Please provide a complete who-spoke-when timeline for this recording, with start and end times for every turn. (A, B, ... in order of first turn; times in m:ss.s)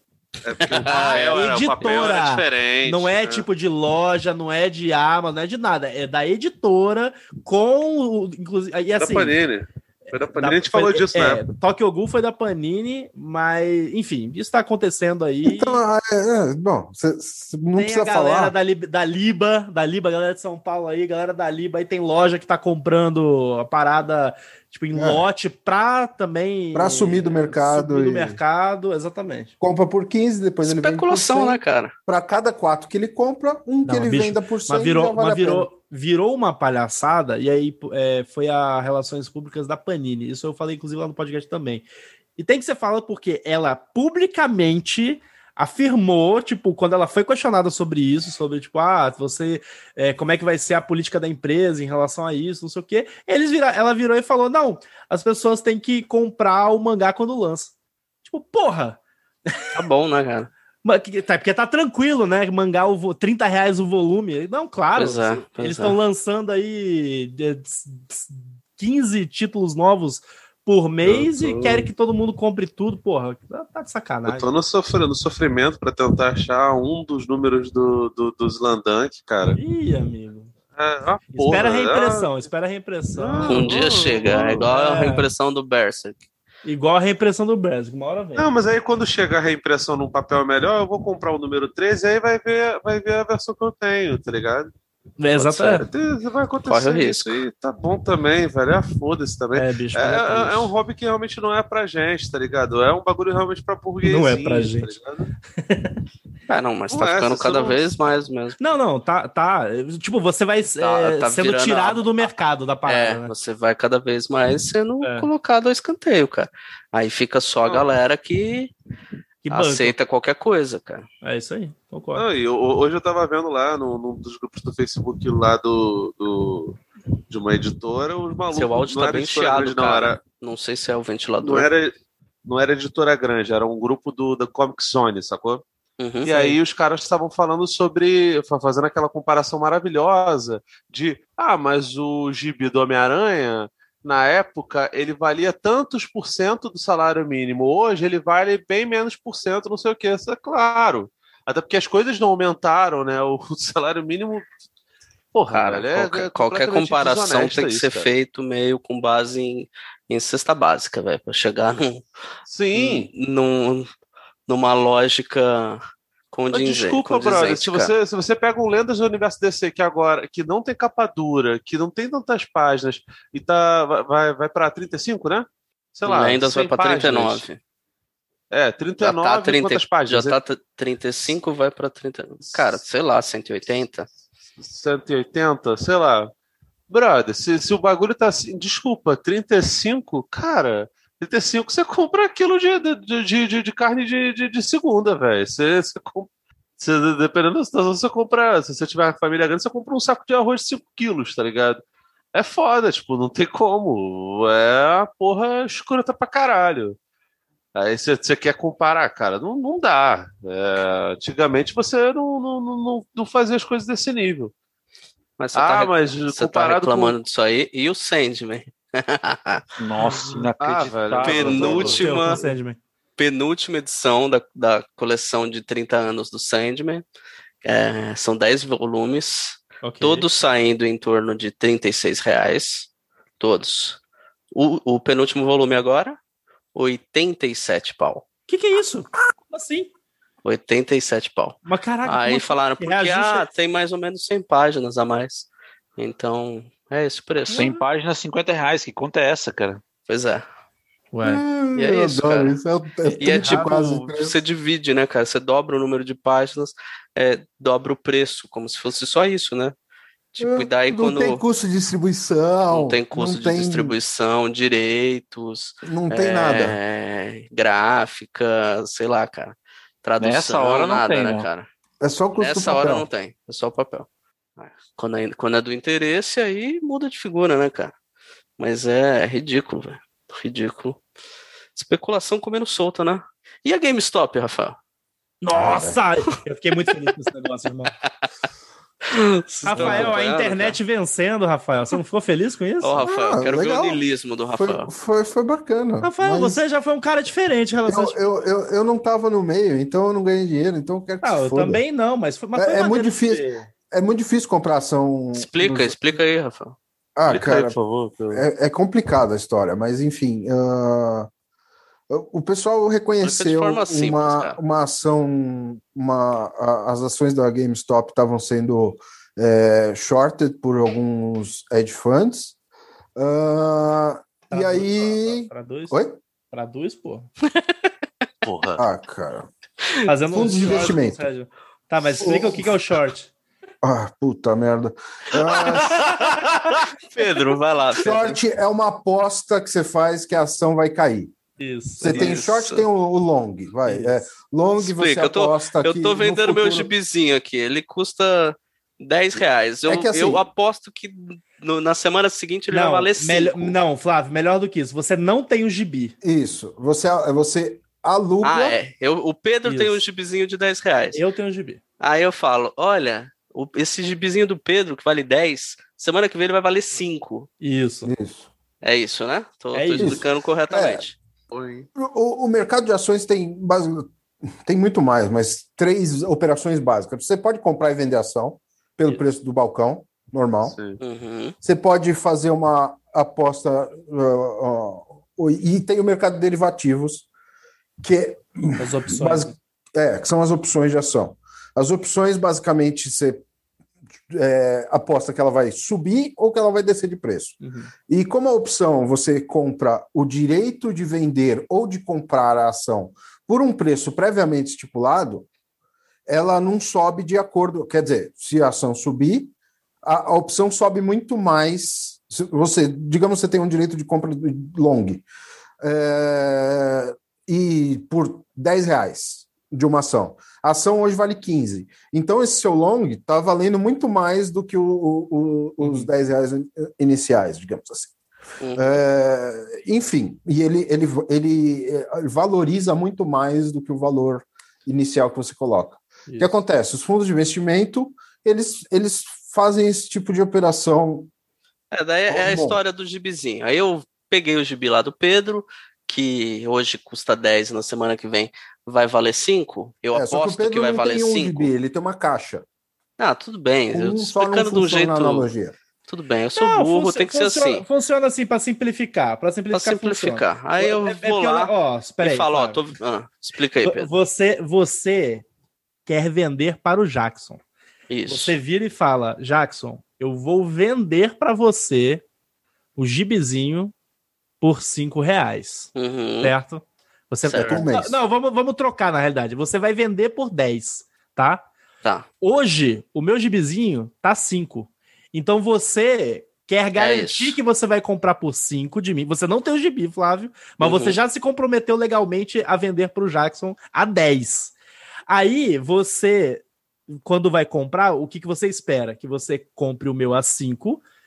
0:00.4-0:03.4 A
0:00.6-0:01.9 B
0:00.9-0:09.4 C
0:09.0-0:11.4 A
0:10.3-0:15.8 C
0:15.4-0:18.5 D
0:17.7-0:29.5 C
0:24.9-0:25.2 D
0:26.7-0:28.4 D
0:29.6-0:35.7 D
0:30.6-0:31.9 B
0:33.8-0:41.8 C
0:42.4-0:57.7 C
0:58.2-0:59.7 C
0:59.7-1:00.5 B
1:00.8-1:14.5 C
1:04.9-1:06.0 B
1:11.0-1:11.9 A
1:14.3-1:19.6 A
1:19.5-1:20.5 C
1:20.8-1:22.3 A
1:21.3-1:23.7 C
1:23.1-1:24.7 A
1:23.5-1:26.2 B
1:24.6-1:25.3 C
1:26.6-1:28.5 C
1:28.4-1:34.7 A
1:35.2-1:35.9 C
1:35.4-1:35.8 B
1:35.7-1:45.3 A
1:36.6-1:37.4 B
1:39.5-1:40.7 C
1:44.0-1:44.9 C
1:45.6-1:46.0 C
1:46.5-1:48.7 B
1:46.9-1:47.9 A
1:48.6-1:53.3 C
1:50.8-1:52.3 B
1:52.8-1:58.7 B
1:55.0-1:55.3 C
1:59.4-2:00.0 C
1:59.5-2:01.0 B
2:01.2-2:02.2 C
2:02.1-2:10.2 A
2:08.5-2:11.7 B
2:11.4-2:11.9 A
2:12.4-2:15.6 A
2:16.0-2:16.6 B
2:16.2-2:34.5 A
2:35.3-2:38.1 A
2:35.5-2:42.0 B
2:42.5-2:43.1 A
2:42.7-2:43.9 B
2:44.5-2:45.8 B
2:46.3-2:47.9 B
2:46.5-2:57.4 A
2:56.0-2:57.6 B
2:58.5-3:00.4 A
2:59.0-3:04.1 B
3:04.6-3:06.3 A
3:06.9-3:21.8 A
3:22.3-3:27.0 A
3:27.7-3:34.5 A
3:35.4-3:39.6 B
3:35.5-3:37.2 A
3:39.8-3:42.0 E
3:40.1-3:40.4 C
3:40.6-3:42.4 A
3:41.2-3:42.4 B
3:41.8-3:42.8 C
3:43.2-3:47.0 B
3:47.6-3:52.9 B
3:49.8-3:50.3 C
3:53.4-3:54.0 B
3:54.5-3:56.2 B
3:56.7-3:58.2 B
3:58.5-3:59.9 C
4:00.4-4:07.7 B
4:01.6-4:03.5 C
4:07.5-4:09.8 E
4:07.5-4:07.8 C
4:10.1-4:10.4 B
4:11.1-4:11.4 C
4:11.2-4:14.4 D
4:11.7-4:12.6 B
4:13.2-4:19.7 B
4:13.3-4:13.7 C
4:20.3-4:21.4 B
4:20.4-4:24.0 D
4:22.7-4:31.6 B
4:25.8-4:26.8 D
4:30.2-4:31.5 E
4:32.0-4:33.1 D
4:32.4-4:34.1 B
4:34.6-4:37.9 B
4:38.6-4:41.0 B
4:41.7-4:44.8 B
4:45.4-4:47.9 C
4:45.5-4:46.0 D
4:49.1-4:50.8 B
4:49.6-4:53.0 C
4:49.7-4:50.1 D
4:52.8-4:54.9 B
4:53.0-4:54.0 D
4:54.5-4:56.6 D
4:56.0-4:58.2 C
4:57.8-5:01.8 D
5:01.2-5:03.7 C
5:02.5-5:06.0 D
5:05.3-5:06.8 B
5:07.2-5:07.7 D
5:07.3-5:08.4 A
5:08.3-5:11.3 D
5:12.1-5:22.5 D
5:13.2-5:14.6 B
5:23.2-5:26.2 D
5:24.5-5:26.0 C
5:26.5-5:27.3 C
5:28.4-5:28.8 A
5:28.8-5:29.5 D
5:30.1-5:33.3 C
5:30.3-5:31.2 D
5:32.2-5:32.7 D
5:33.8-5:36.3 D
5:35.3-5:37.6 A
5:37.2-5:38.4 B
5:37.9-5:41.3 D
5:41.6-5:42.3 C
5:42.0-5:46.9 D
5:42.0-5:42.8 B
5:43.9-5:44.2 C
5:44.8-5:53.7 B
5:49.9-5:50.4 D
5:52.7-5:56.1 C
5:56.2-5:58.8 D
5:58.4-6:01.2 B
5:59.6-6:00.0 C
6:01.1-6:01.8 C
6:02.0-6:07.5 B
6:07.6-6:08.1 C
6:08.0-6:08.5 D
6:08.8-6:11.2 B
6:09.7-6:10.2 C
6:10.0-6:11.0 D
6:11.5-6:11.9 A
6:12.0-6:14.1 D
6:14.6-6:20.8 D
6:20.6-6:21.0 A
6:21.0-6:21.5 B
6:21.6-6:27.3 D
6:28.0-6:33.4 D
6:28.8-6:29.5 C
6:34.3-6:45.5 D
6:37.6-6:37.9 C
6:46.3-6:49.5 D
6:50.0-6:55.2 D
6:55.8-7:08.1 D
7:05.8-7:06.1 C
7:08.6-7:09.0 B
7:08.8-7:21.3 D
7:16.3-7:16.6 C
7:21.9-7:31.7 B
7:22.3-7:22.8 D
7:30.1-7:32.6 D
7:33.2-7:35.5 B
7:33.9-7:35.7 D
7:36.1-7:37.8 B
7:36.6-7:42.8 C
7:39.7-7:44.1 B
7:43.8-7:45.4 C
7:46.0-7:47.6 C
7:48.1-7:48.6 B
7:48.3-7:52.2 C
7:53.0-7:53.9 C
7:54.6-7:55.9 C
7:55.9-7:56.5 B
7:56.4-8:01.6 C
7:57.4-7:57.8 B
7:57.6-7:58.2 D
8:02.4-8:14.7 C
8:07.0-8:07.6 B
8:10.8-8:11.2 B
8:15.3-8:21.0 C